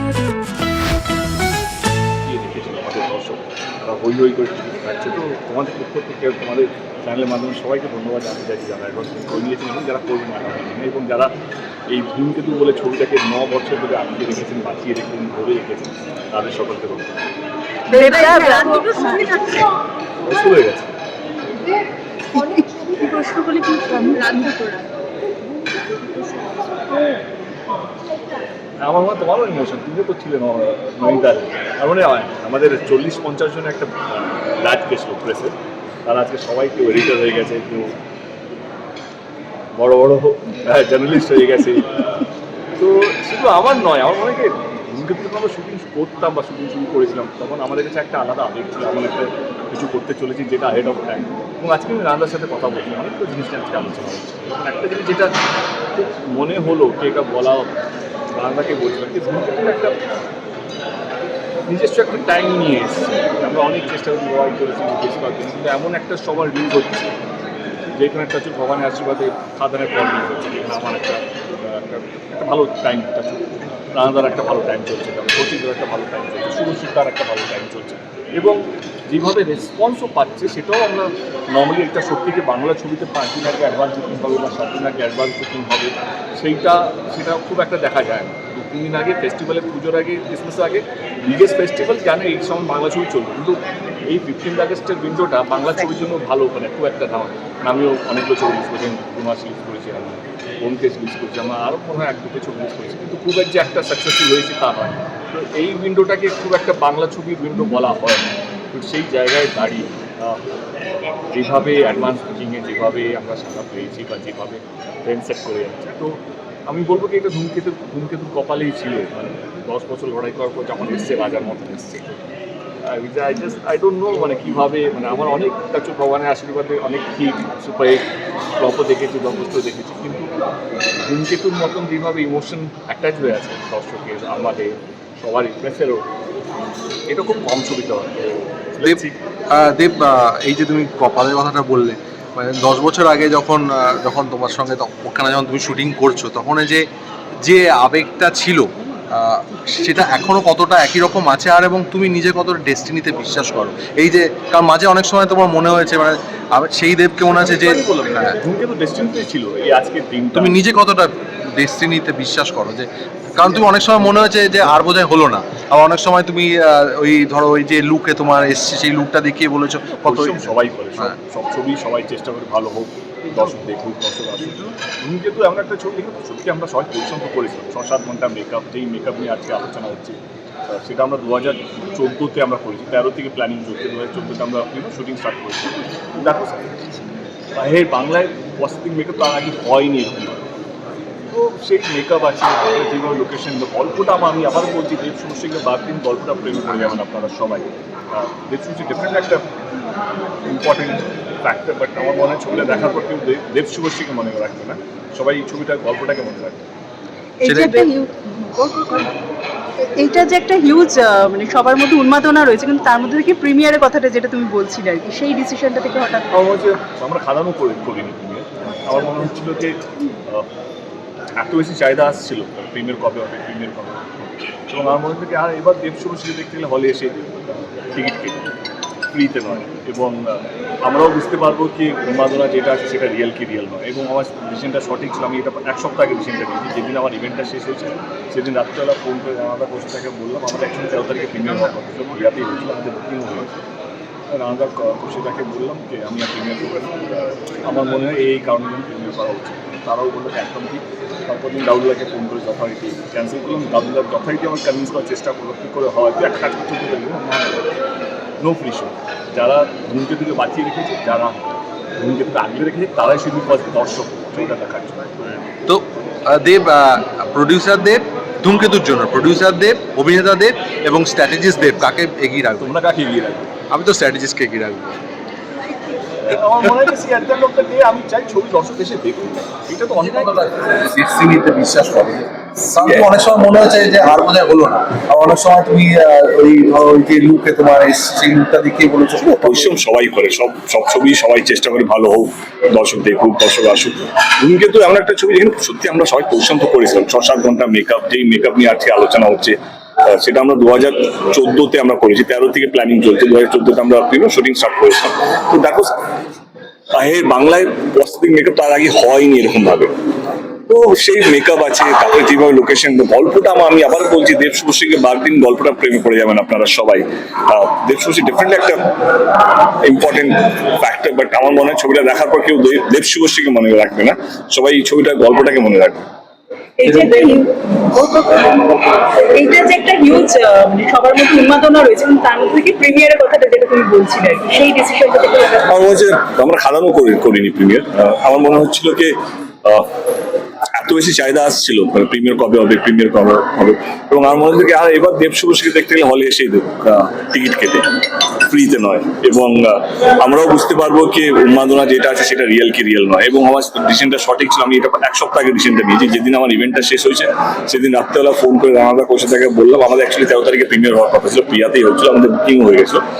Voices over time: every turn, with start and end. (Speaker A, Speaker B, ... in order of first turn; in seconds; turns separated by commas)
Speaker A: 2.2-11.3, Speaker A: 11.9-17.1, Speaker B: 17.9-19.6, Speaker A: 20.2-20.9, Speaker B: 22.3-24.7, Speaker B: 26.0-26.6, Speaker A: 28.8-38.0, Speaker A: 39.8-42.2, Speaker A: 42.8-55.4, Speaker A: 56.0-57.8, Speaker A: 58.3-60.0, Speaker A: 61.7-67.1, Speaker A: 67.9-110.4, Speaker A: 111.3-122.2, Speaker A: 122.8-130.3, Speaker A: 131.0-136.1, Speaker A: 137.1-139.2, Speaker C: 138.8-146.9, Speaker C: 147.4-158.4, Speaker A: 157.4-160.6, Speaker C: 160.3-171.1, Speaker A: 170.0-186.6, Speaker A: 187.6-190.4, Speaker A: 191.3-199.5, Speaker A: 200.4-206.6, Speaker B: 207.4-209.1, Speaker C: 207.4-207.9, Speaker B: 209.8-216.3, Speaker A: 216.3-220.5, Speaker A: 221.4-228.5, Speaker A: 229.1-243.6, Speaker A: 244.3-257.7, Speaker A: 258.4-265.4, Speaker C: 265.7-272.7, Speaker A: 272.6-273.5, Speaker C: 273.7-275.0, Speaker A: 276.2-280.6, Speaker C: 280.1-289.7, Speaker A: 282.8-283.1, Speaker A: 289.4-306.0, Speaker A: 306.9-309.9, Speaker A: 310.7-319.0, Speaker A: 319.5-326.0, Speaker D: 326.8-328.7, Speaker D: 329.3-335.5, Speaker A: 335.6-339.9, Speaker A: 340.8-363.0